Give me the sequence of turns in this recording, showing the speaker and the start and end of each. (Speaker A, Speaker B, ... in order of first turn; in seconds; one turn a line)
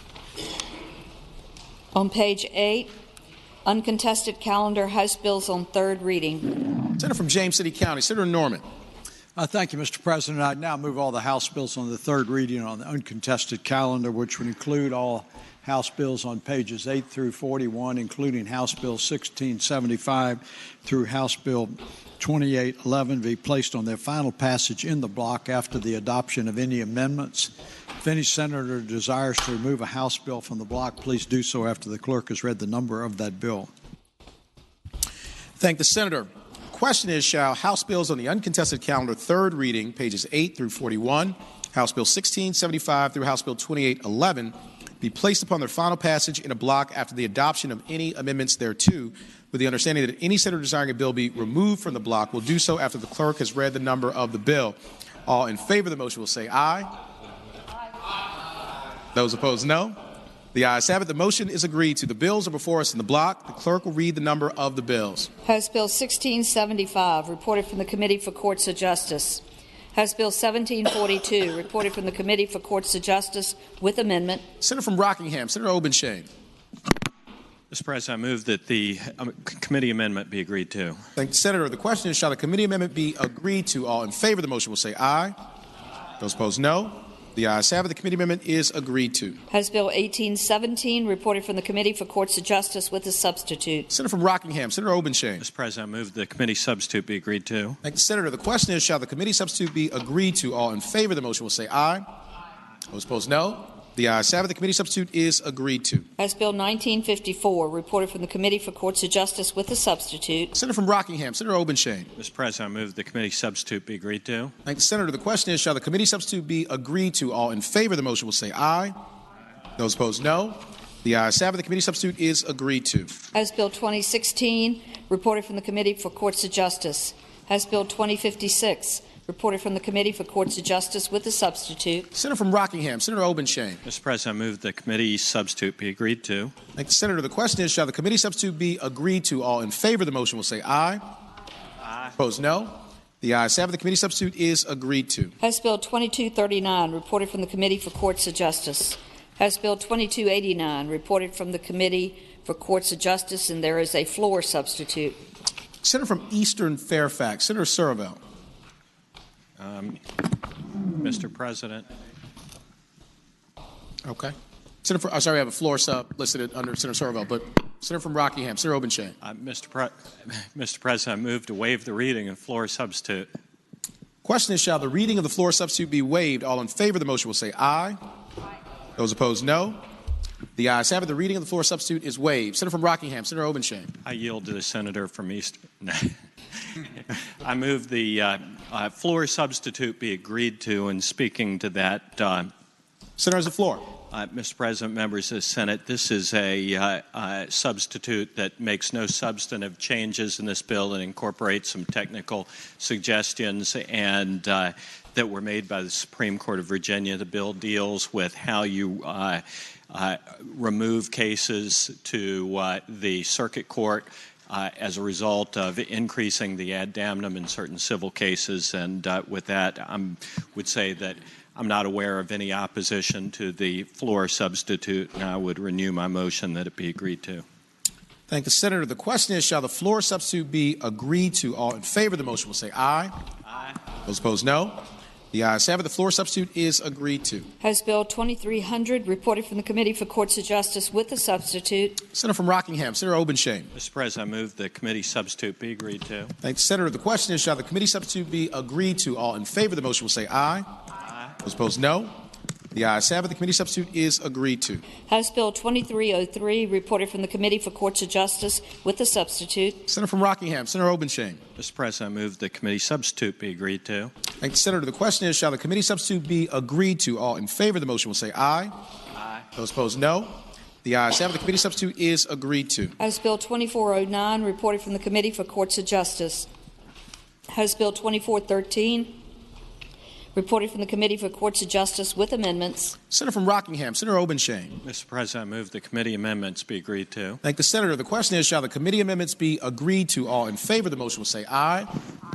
Speaker A: 1.9-2.9
Speaker A: 3.6-6.6
Speaker B: 7.0-8.6
Speaker C: 9.3-33.7
Speaker B: 35.6-56.9
Speaker B: 59.1-60.0
Speaker B: 60.5-65.3
Speaker A: 65.5-69.4
Speaker A: 69.9-74.5
Speaker B: 74.6-76.3
Speaker D: 77.7-81.0
Speaker B: 81.2-85.3
Speaker B: 86.2-89.4
Speaker A: 89.5-93.9
Speaker B: 93.9-95.4
Speaker D: 95.4-97.8
Speaker B: 97.8-102.0
Speaker B: 102.9-106.1
Speaker A: 106.2-110.5
Speaker B: 110.5-112.1
Speaker D: 112.2-114.5
Speaker B: 114.7-119.0
Speaker B: 119.8-123.2
Speaker A: 123.3-132.1
Speaker B: 132.1-133.8
Speaker D: 133.8-136.5
Speaker B: 136.8-141.0
Speaker D: 141.9-142.1
Speaker B: 142.2-145.4
Speaker A: 145.4-155.2
Speaker B: 155.8-158.2
Speaker D: 159.6-160.3
Speaker D: 161.0-161.9
Speaker B: 164.1-169.2
Speaker D: 169.2-173.3
Speaker B: 174.2-178.0
Speaker B: 179.0-179.8
Speaker B: 180.6-183.9
Speaker D: 184.0-186.2
Speaker D: 186.9-192.5
Speaker B: 193.2-193.9
Speaker D: 194.1-227.4
Speaker B: 228.3-233.1
Speaker B: 234.1-237.5
Speaker A: 237.6-242.0
Speaker B: 242.1-243.7
Speaker D: 243.8-246.3
Speaker B: 246.4-250.7
Speaker D: 251.1-251.3
Speaker B: 251.4-252.1
Speaker B: 252.7-254.8
Speaker A: 255.1-259.8
Speaker B: 259.9-261.4
Speaker D: 261.6-264.1
Speaker B: 264.4-268.7
Speaker B: 269.6-273.0
Speaker A: 273.0-276.5
Speaker A: 277.5-279.2
Speaker A: 280.4-283.0
Speaker B: 283.1-284.8
Speaker D: 284.8-287.4
Speaker B: 287.4-291.9